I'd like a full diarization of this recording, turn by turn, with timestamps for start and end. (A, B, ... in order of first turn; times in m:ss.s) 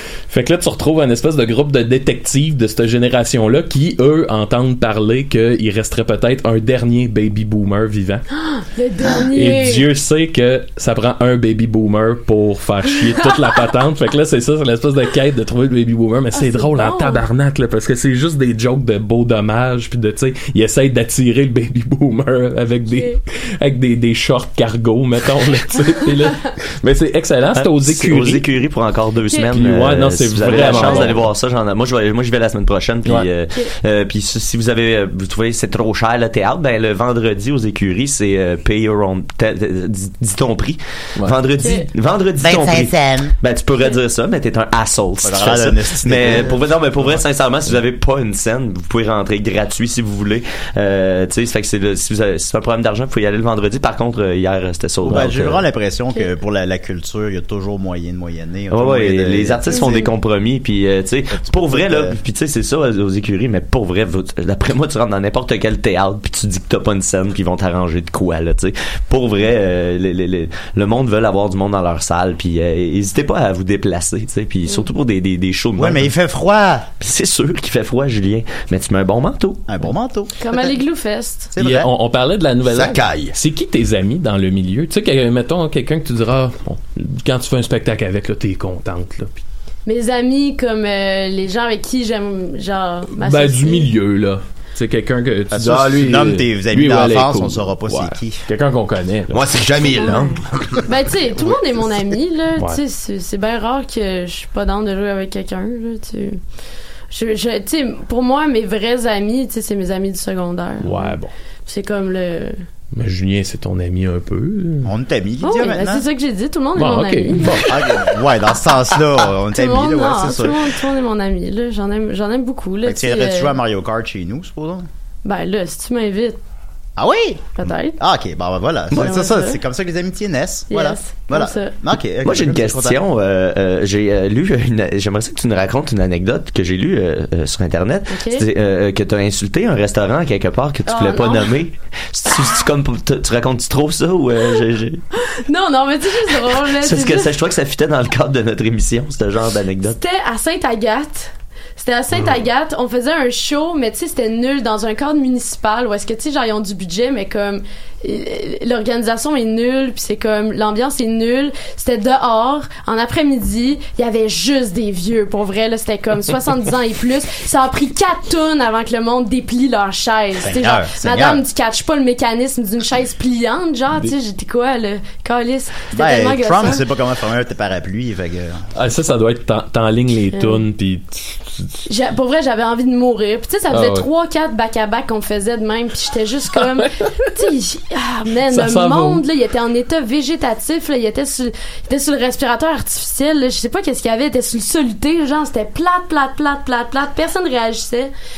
0:00.3-0:08.2 A
0:08.3-0:09.9 B
0:09.2-0:28.4 A
0:16.3-0:17.2 B
0:22.9-0:23.2 B
0:27.5-0:55.6 C
0:29.5-0:31.2 A
0:30.6-0:31.1 B
0:41.6-0:41.9 B
0:42.4-0:43.3 D
0:45.2-0:47.2 D
0:55.0-1:00.1 D
0:58.7-1:16.1 C
0:59.7-1:00.0 B
1:01.4-1:02.2 D
1:15.8-1:16.9 D
1:17.0-1:19.6 C
1:19.7-1:20.7 D
1:20.4-1:21.5 B
1:21.5-1:21.9 D
1:21.6-1:29.3 A
1:22.7-1:23.4 E
1:29.9-1:33.9 B
1:33.2-1:39.5 A
1:35.5-1:38.4 D
1:39.3-1:40.8 E
1:39.9-1:46.4 B
1:47.1-1:52.6 B
1:50.8-1:51.3 A
1:53.0-1:54.9 A
1:54.8-1:56.1 D
1:55.4-1:57.6 B
1:56.8-1:57.8 A
1:57.4-2:00.6 D
1:59.5-2:03.6 B
2:02.8-2:04.9 D
2:05.2-2:06.4 B
2:07.0-2:13.0 D
2:07.6-2:08.0 B
2:08.9-2:09.6 B
2:10.7-2:11.8 B
2:12.2-2:25.0 C
2:18.1-2:18.4 B
2:20.9-2:21.5 B
2:25.2-2:27.3 B
2:26.6-2:30.0 C
2:29.9-2:56.8 B
2:50.4-2:51.4 D
2:55.9-2:58.6 D
2:58.8-3:01.8 A
3:00.3-3:00.6 B
3:01.9-3:18.1 B
3:03.7-3:04.1 A
3:08.5-3:09.2 A